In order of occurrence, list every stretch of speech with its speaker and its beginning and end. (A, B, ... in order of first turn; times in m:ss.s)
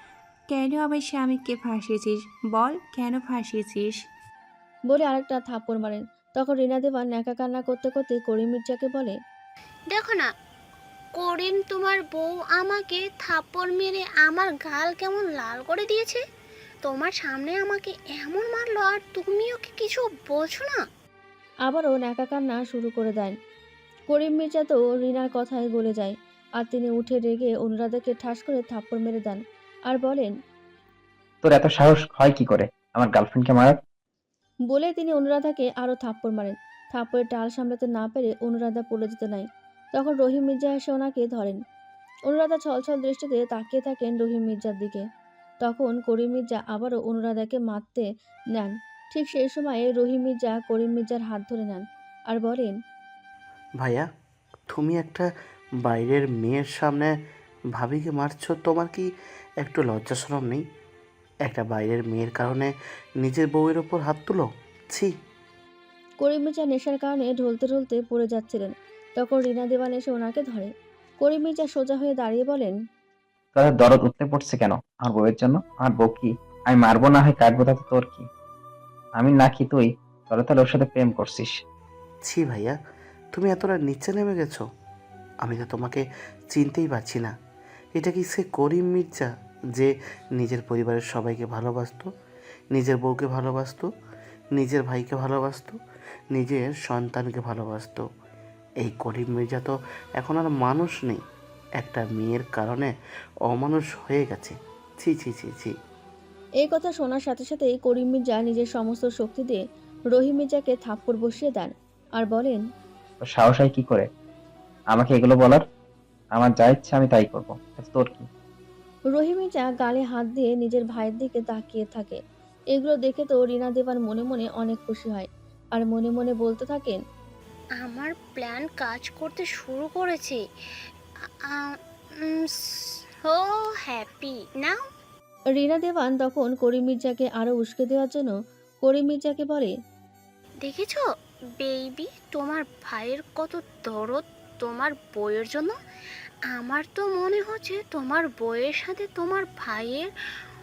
0:00.5-0:04.0 A
0:04.9-0:09.2 B
0:09.9-0:10.3 C
0:11.2-0:16.2 C
0:16.8-0:20.8 C
0:21.6-0:23.3 B
0:24.1-0:30.3 B
0:31.4-0:33.8 D
0:34.7-0:41.6 B
0:42.3-0:45.0 B
0:45.6-0:52.7 B
0:53.8-0:54.0 E
0:54.7-0:55.3 E
0:55.8-0:57.1 E
0:57.8-0:59.1 E
0:59.6-1:00.6 E
1:01.4-1:05.1 E
1:06.2-1:10.7 B
1:11.2-1:12.7 B
1:13.6-1:18.2 D
1:19.2-1:21.5 D
1:22.2-1:22.8 E
1:23.3-1:24.6 E
1:25.4-1:27.3 E
1:27.9-1:32.1 E
1:32.7-1:33.9 E
1:34.6-1:35.8 E
1:36.3-1:38.0 E
1:38.8-1:41.2 E
1:41.8-1:42.9 E
1:43.5-1:45.7 E
1:46.6-1:52.6 B
1:53.2-1:54.1 D
1:54.9-1:55.6 D
1:56.4-1:58.3 D
1:59.1-2:02.2 B
2:02.7-2:07.0 B
2:07.8-2:10.4 C
2:11.2-2:14.8 C
2:15.6-2:19.7 B
2:20.6-2:21.0 C
2:21.6-2:25.8 C
2:26.5-2:30.1 C